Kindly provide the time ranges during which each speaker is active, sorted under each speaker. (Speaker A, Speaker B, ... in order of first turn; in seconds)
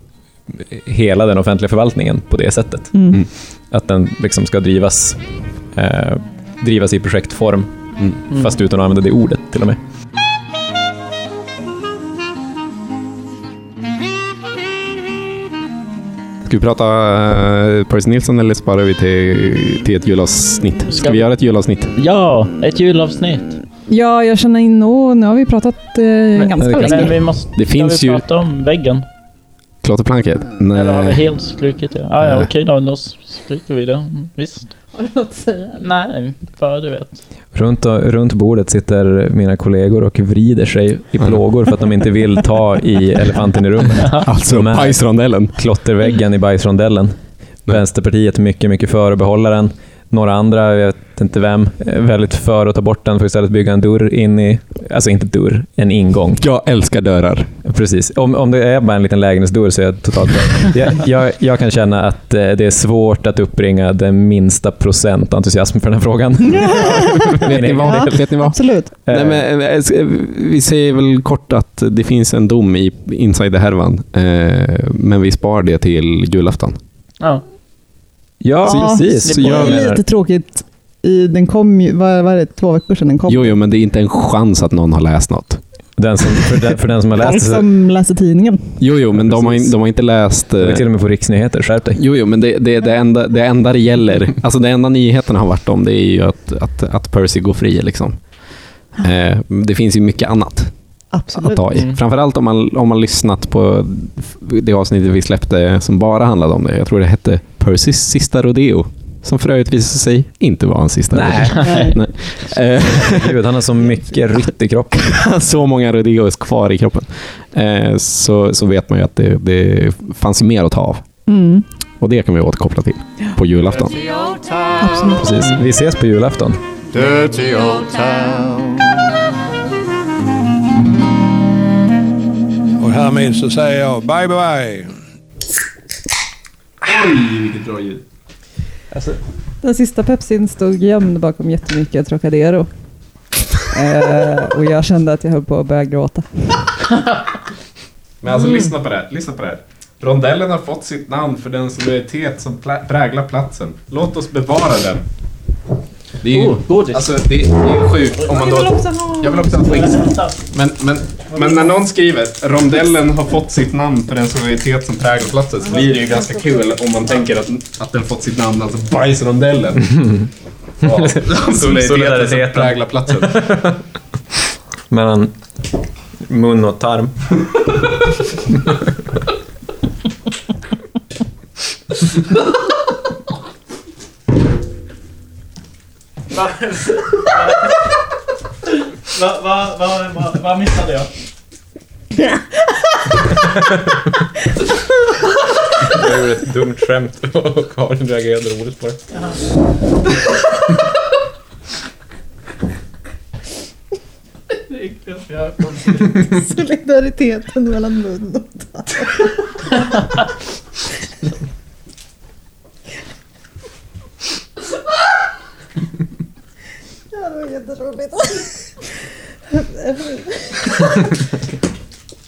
Speaker A: 0.5-9.8, 26.6-27.1, 37.5-56.4, 57.6-69.4, 78.4-80.0, 86.0-87.7, 89.3-89.7, 90.6-92.0, 111.1-111.7, 112.8-115.1, 125.2-126.6, 138.9-139.2, 170.8-173.8, 174.9-175.3, 176.3-177.3, 195.9-199.0
Speaker B: 2.9-3.2, 23.9-27.2, 35.0-35.8, 66.7-68.9, 78.6-83.6, 87.2-88.9, 101.1-101.8, 111.6-112.0, 121.3-121.7, 124.8-125.6, 139.6-142.7, 143.7-146.7, 148.3-148.7, 158.2-159.7, 206.2-209.3, 217.1-218.8, 219.6-221.0
Speaker C: 16.4-22.0, 27.6-28.2, 29.8-31.3, 32.2-32.5, 41.2-41.5, 44.2-45.6, 56.4-57.5, 67.0-76.8, 78.7-79.7, 83.3-85.6, 88.8-90.9, 92.0-98.4, 99.0-100.8, 101.3-113.4, 114.9-121.0, 122.0-124.1, 136.8-138.0, 148.2-155.1, 156.2-170.2, 170.8-173.5
Speaker D: 21.0-21.3, 21.9-23.6, 26.4-29.1, 30.7-34.7, 35.8-37.2, 79.2-79.9, 101.7-102.0, 111.5-112.0, 156.3-157.1, 159.9-160.3, 186.3-187.7, 189.1-191.1, 204.7-206.3
Speaker E: 127.4-127.9, 132.8-134.9